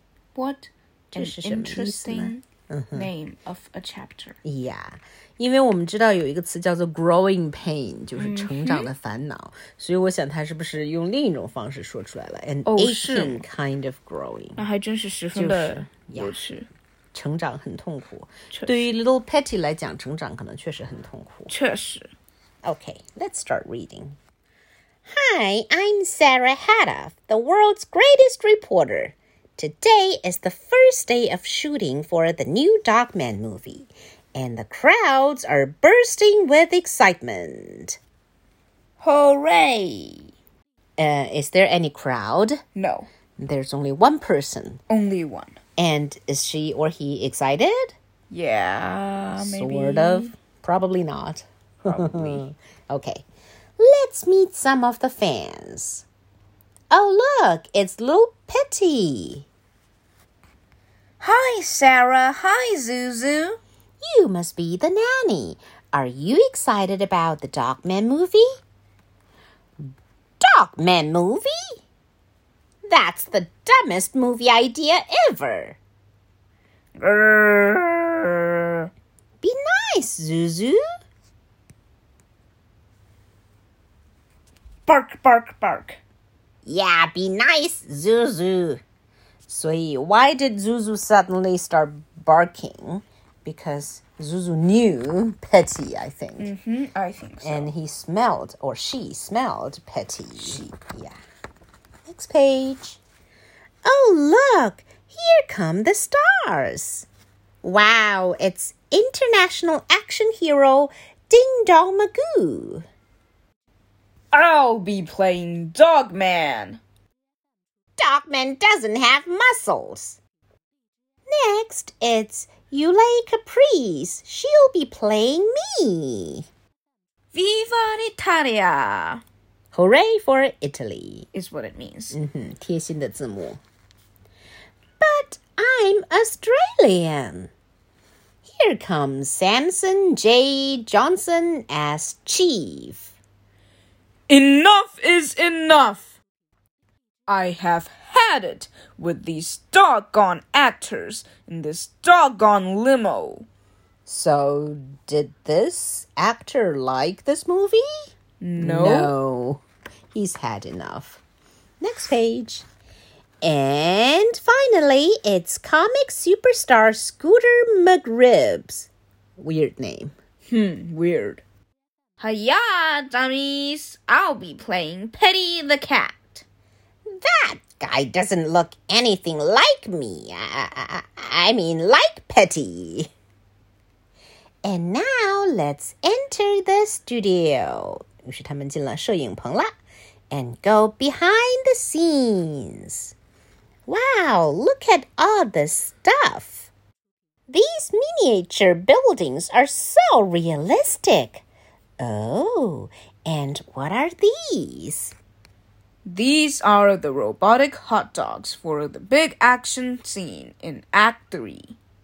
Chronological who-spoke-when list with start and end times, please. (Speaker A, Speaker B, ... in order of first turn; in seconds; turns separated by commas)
Speaker A: 0.3-4.3, Speaker B: 1.1-3.1, Speaker B: 4.4-14.6, Speaker A: 8.2-8.9, Speaker A: 12.7-13.4, Speaker A: 14.6-16.7, Speaker B: 15.3-16.4, Speaker B: 17.1-21.5, Speaker A: 18.5-18.9, Speaker A: 21.5-22.1, Speaker B: 22.6-24.2, Speaker B: 25.1-38.0, Speaker A: 39.0-40.3, Speaker B: 41.0-42.6, Speaker A: 42.8-43.1, Speaker B: 43.4-44.8, Speaker A: 44.9-45.6, Speaker B: 45.8-47.9, Speaker A: 48.3-50.3, Speaker B: 49.4-53.2, Speaker A: 51.8-52.4, Speaker B: 53.8-56.0, Speaker B: 56.9-59.5, Speaker A: 61.2-63.6, Speaker B: 64.0-68.5, Speaker B: 70.4-71.8, Speaker B: 72.9-75.8, Speaker A: 77.0-78.9, Speaker B: 79.4-80.8, Speaker A: 84.9-86.0, Speaker B: 86.6-88.8, Speaker B: 89.5-96.5, Speaker A: 96.4-97.7, Speaker B: 97.4-101.2, Speaker A: 100.4-100.7, Speaker B: 102.1-103.0, Speaker B: 103.8-107.1, Speaker B: 107.6-112.8, Speaker A: 114.3-116.8, Speaker B: 118.0-120.2, Speaker B: 121.3-126.5, Speaker A: 127.3-129.2, Speaker B: 129.7-131.3, Speaker A: 131.3-132.2, Speaker B: 132.1-133.6, Speaker B: 135.0-137.5, Speaker B: 138.4-143.1, Speaker A: 144.3-146.1, Speaker A: 147.3-153.5, Speaker B: 154.1-157.8, Speaker A: 158.4-159.1, Speaker B: 158.6-159.6, Speaker B: 160.1-161.2, Speaker B: 161.8-162.7, Speaker B: 163.4-170.1, Speaker A: 170.5-171.4, Speaker A: 172.2-176.4, Speaker B: 177.1-183.1, Speaker B: 184.6-189.7, Speaker B: 190.3-193.1, Speaker B: 193.9-196.7, Speaker B: 197.5-201.4, Speaker B: 202.0-205.2, Speaker A: 206.1-211.8